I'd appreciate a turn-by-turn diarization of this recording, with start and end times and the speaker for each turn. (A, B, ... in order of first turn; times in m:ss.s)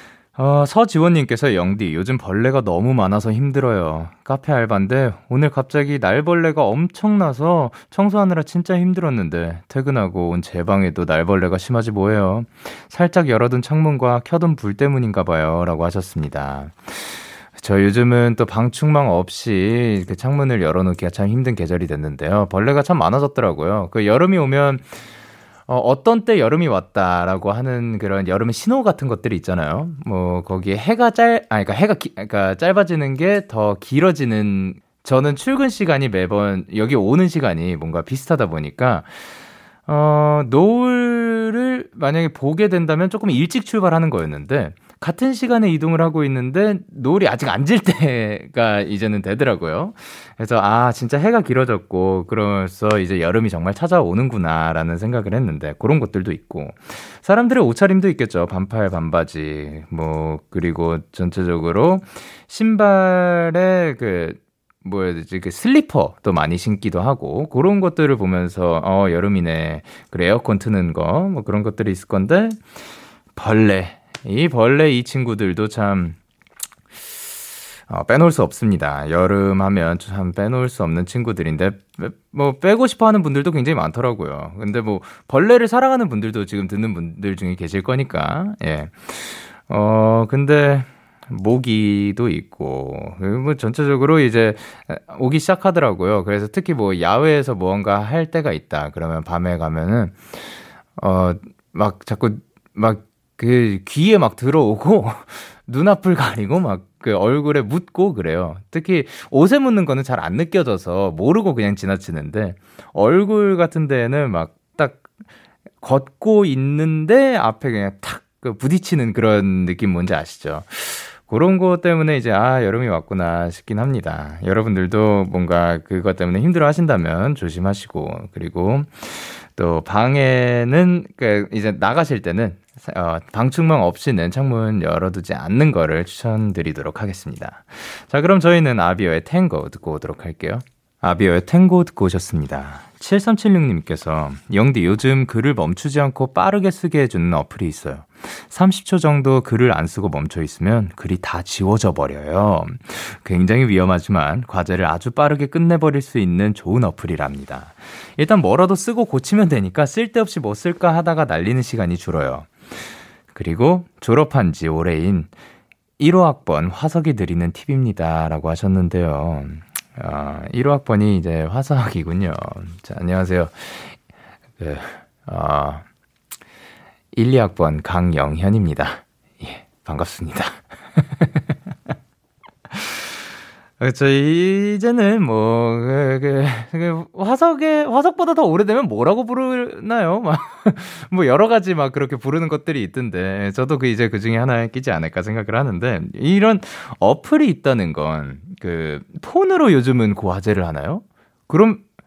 0:00.4-0:25.0 A
0:25.7-0:39.3 A
0:39.9-1:12.6 A
1:13.4-1:16.2 A
1:17.9-1:55.0 A
1:55.8-2:42.7 A
2:43.3-2:45.3 A
2:46.0-2:54.0 A
2:54.6-2:55.8 A
2:57.1-3:01.3 A
3:02.7-3:03.1 A
3:03.8-3:21.8 A